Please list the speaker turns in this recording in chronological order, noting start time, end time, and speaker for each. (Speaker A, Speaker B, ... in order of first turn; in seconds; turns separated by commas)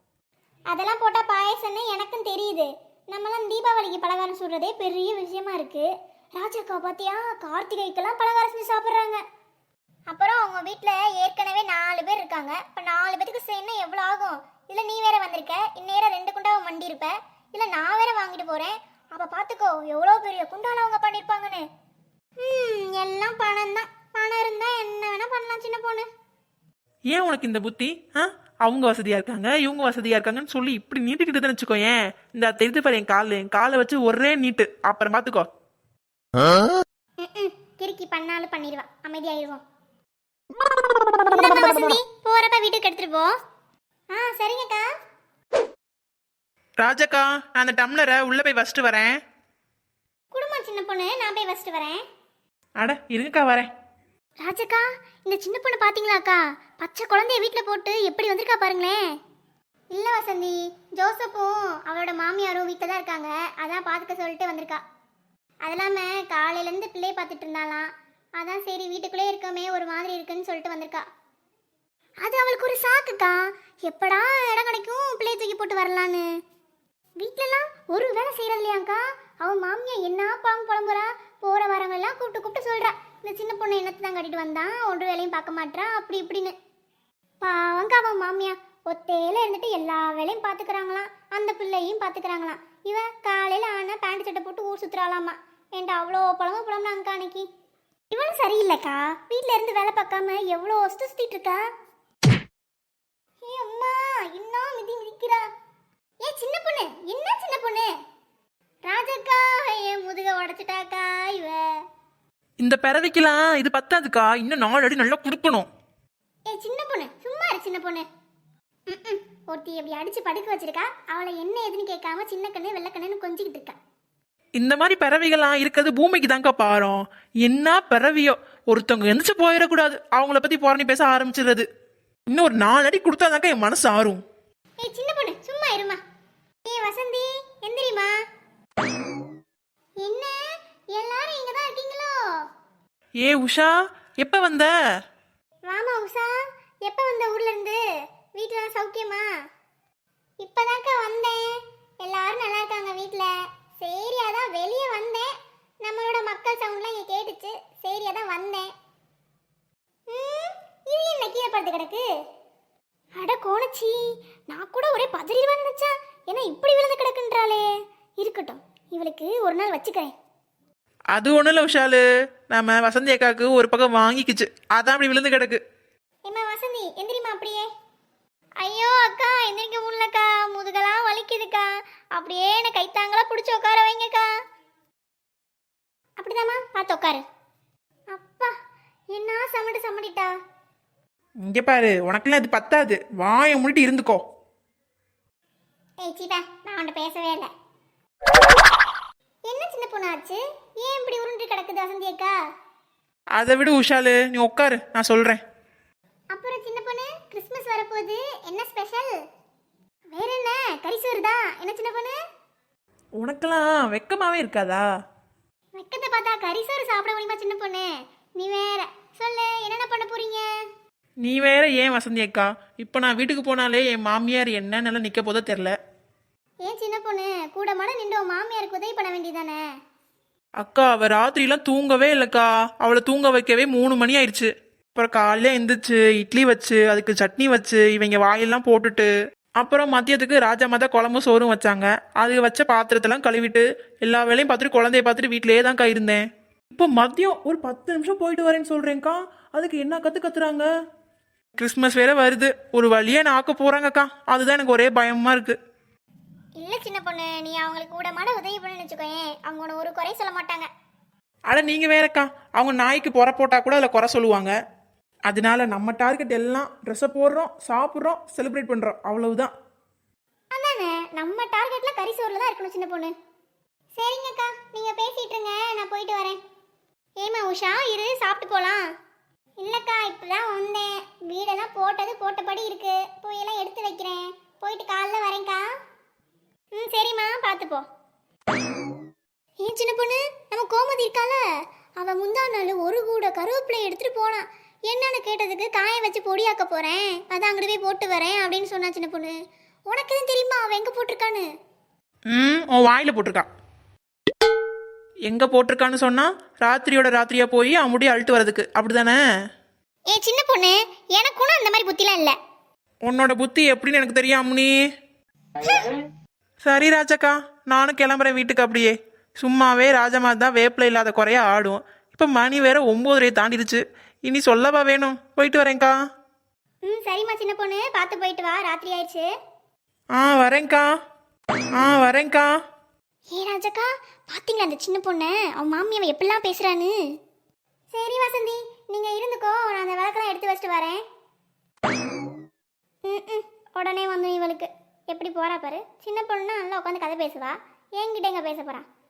Speaker A: 0.7-9.2, Speaker A: 10.1-21.6, Speaker A: 22.4-26.1, Speaker B: 27.1-35.5, Speaker A: 37.2-39.6, Speaker A: 41.2-43.3, Speaker A: 44.1-44.9, Speaker B: 46.8-49.1, Speaker A: 50.3-52.0, Speaker B: 52.8-53.7, Speaker A: 54.4-59.0, Speaker A: 59.9-64.8, Speaker A: 65.6-71.0, Speaker A: 72.2-76.2, Speaker A: 77.2-86.5, Speaker A: 87.4-97.5, Speaker A: 98.1-101.6, Speaker A: 103.4-105.4, Speaker A: 106.2-107.9, Speaker A: 108.9-111.6, Speaker B: 112.6-115.7, Speaker A: 116.5-118.0, Speaker A: 118.9-123.8, Speaker B: 124.6-131.7, Speaker B: 132.3-134.2, Speaker A: 134.8-136.0, Speaker A: 136.6-138.1, Speaker A: 140.0-140.4, Speaker A: 140.9-142.1, Speaker B: 143.2-144.7, Speaker A: 145.7-146.3, Speaker A: 146.8-147.8, Speaker A: 148.4-149.2, Speaker A: 150.4-155.3, Speaker A: 155.8-158.7, Speaker A: 160.1-162.0, Speaker A: 163.2-163.9, Speaker A: 164.5-167.7, Speaker A: 168.2-170.1, Speaker B: 171.1-175.6, Speaker A: 176.3-177.7, Speaker A: 178.6-184.3, Speaker A: 186.2-187.2, Speaker A: 188.1-188.5, Speaker A: 189.1-190.3, Speaker B: 191.4-194.2, Speaker A: 196.0-197.5, Speaker A: 199.5-202.3, Speaker B: 203.4-205.4, Speaker A: 206.3-209.1, Speaker A: 210.1-212.2, Speaker B: 213.2-214.8, Speaker A: 215.7-217.9, Speaker A: 218.4-220.4, Speaker B: 221.2-225.7, Speaker A: 226.6-229.6, Speaker B: 230.6-239.1, Speaker B: 239.6-246.2, Speaker B: 246.7-250.7, Speaker B: 251.6-255.6, Speaker A: 256.6-260.7, Speaker B: 261.5-264.5, Speaker B: 265.3-269.5, Speaker A: 270.5-273.1, Speaker A: 273.9-276.4, Speaker A: 277.2-278.8, Speaker A: 279.6-285.6, Speaker A: 286.8-287.9, Speaker A: 289.6-291.4, Speaker A: 292.0-299.4, Speaker A: 299.9-301.5, Speaker B: 302.3-303.5, Speaker B: 305.3-309.2, Speaker A: 310.1-312.3, Speaker B: 313.1-314.7, Speaker B: 316.6-325.9, Speaker A: 326.9-329.3, Speaker B: 330.2-330.9, Speaker B: 331.8-332.5, Speaker A: 333.3-336.9, Speaker A: 337.9-341.0, Speaker A: 343.1-348.9